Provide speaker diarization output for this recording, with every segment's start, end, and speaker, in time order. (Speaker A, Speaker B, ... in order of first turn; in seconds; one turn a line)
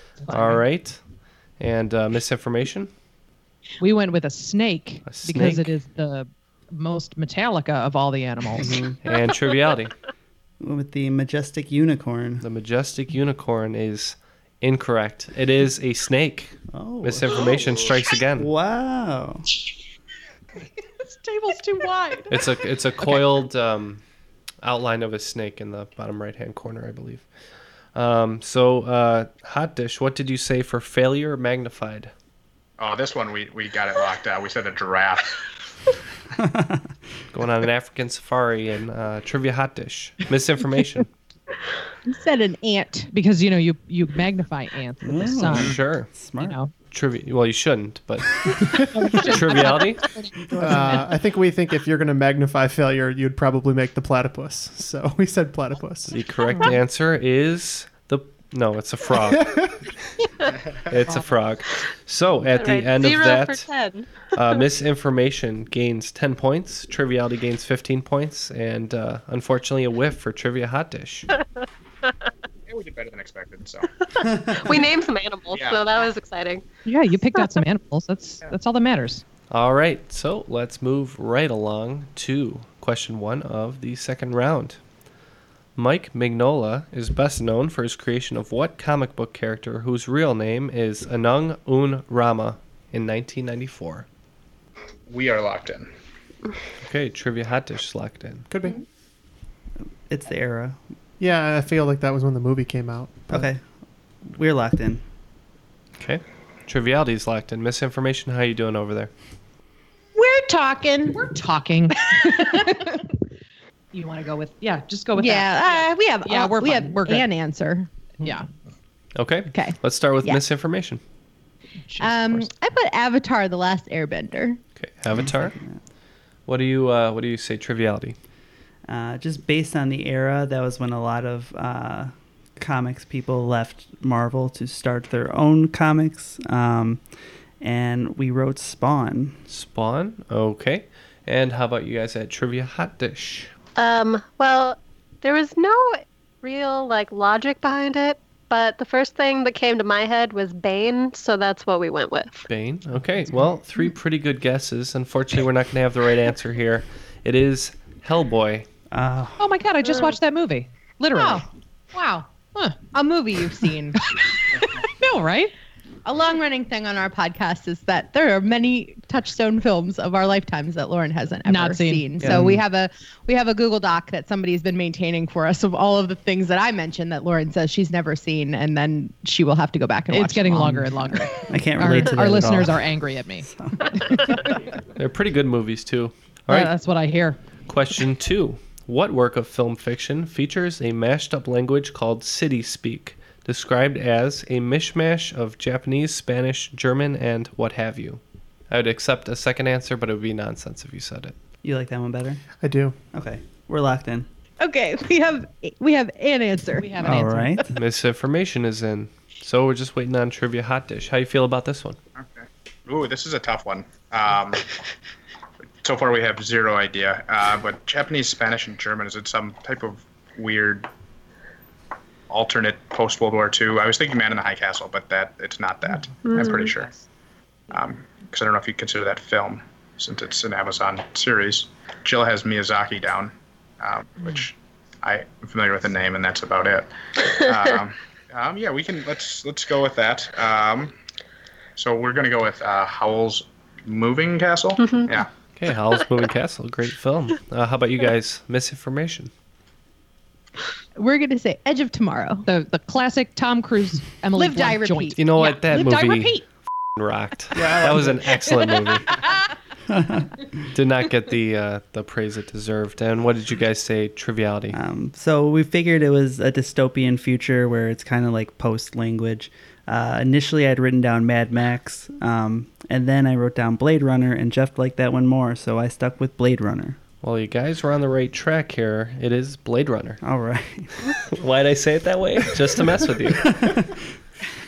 Speaker A: 0.3-1.0
Speaker A: 1.6-2.9
Speaker B: 3.8-8.7
Speaker A: 5.1-5.7
Speaker C: 8.6-9.0
Speaker A: 9.0-9.9
Speaker C: 10.6-12.4
Speaker A: 12.4-18.5
Speaker C: 16.7-17.7
Speaker C: 18.4-19.5
Speaker B: 21.0-22.3
Speaker A: 22.3-24.0
Speaker A: 24.6-27.3
Speaker A: 27.9-32.1
Speaker D: 32.8-35.4
Speaker C: 36.4-36.9
Speaker A: 37.3-41.1
Speaker E: 42.1-43.1
Speaker B: 43.1-45.8
Speaker C: 45.0-46.6
Speaker A: 45.5-46.1
Speaker B: 46.4-46.7
Speaker A: 46.9-48.6
Speaker B: 48.9-51.0
Speaker A: 49.1-50.0
Speaker C: 50.6-51.0
Speaker F: 50.6-56.1
Speaker A: 56.1-59.6
Speaker F: 59.4-59.7
Speaker A: 60.9-63.7
Speaker G: 62.5-64.1
Speaker A: 64.3-71.3
Speaker D: 72.7-73.9
Speaker G: 74.2-76.7
Speaker D: 75.5-75.8
Speaker B: 76.9-79.2
Speaker A: 79.5-84.8
Speaker A: 85.8-94.1
Speaker D: 95.1-95.9
Speaker A: 96.8-98.5
Speaker F: 98.5-98.8
Speaker C: 100.1-100.8
Speaker F: 101.2-103.5
Speaker C: 103.3-103.6
Speaker C: 104.2-105.0
Speaker A: 106.0-109.1
Speaker E: 110.2-111.2
Speaker B: 111.1-113.0
Speaker B: 113.9-117.3
Speaker E: 115.2-117.9
Speaker B: 118.2-118.5
Speaker A: 119.2-121.0
Speaker E: 119.5-120.4
Speaker B: 121.9-122.4
Speaker E: 122.0-124.6
Speaker A: 124.8-125.5
Speaker C: 125.2-125.8
Speaker A: 126.5-128.2
Speaker C: 128.9-137.0
Speaker C: 137.6-139.4
Speaker A: 139.5-143.5
Speaker G: 143.8-152.5
Speaker A: 152.5-158.7
Speaker C: 158.9-159.5
Speaker B: 159.4-161.4
Speaker E: 161.2-161.4
Speaker E: 162.0-162.2
Speaker B: 162.0-162.8
Speaker E: 162.9-164.0
Speaker B: 164.2-165.5
Speaker E: 166.1-180.9
Speaker B: 171.5-172.4
Speaker C: 172.2-172.6
Speaker B: 180.1-183.5
Speaker C: 181.5-182.9
Speaker C: 183.4-184.1
Speaker B: 184.1-184.5
Speaker A: 185.0-186.7
Speaker B: 186.5-187.4
Speaker A: 187.7-201.3
Speaker C: 201.6-202.4
Speaker F: 202.6-203.0
Speaker C: 203.1-204.3
Speaker E: 204.6-207.2
Speaker B: 206.8-207.6
Speaker C: 207.0-207.7
Speaker A: 207.7-212.0
Speaker D: 212.2-214.6
Speaker D: 215.8-220.9
Speaker D: 222.3-226.9
Speaker G: 226.2-226.7
Speaker D: 227.7-236.9
Speaker D: 237.4-240.9
Speaker D: 241.8-245.3
Speaker A: 245.6-249.3
Speaker E: 251.0-252.5
Speaker B: 252.5-256.4
Speaker E: 254.3-255.2
Speaker A: 255.2-256.4
Speaker A: 257.0-259.2
Speaker C: 257.6-258.2
Speaker C: 259.9-260.3
Speaker A: 260.7-264.8
Speaker C: 264.7-277.0
Speaker A: 277.2-280.2
Speaker C: 280.2-281.0
Speaker A: 281.3-283.5
Speaker C: 283.4-284.0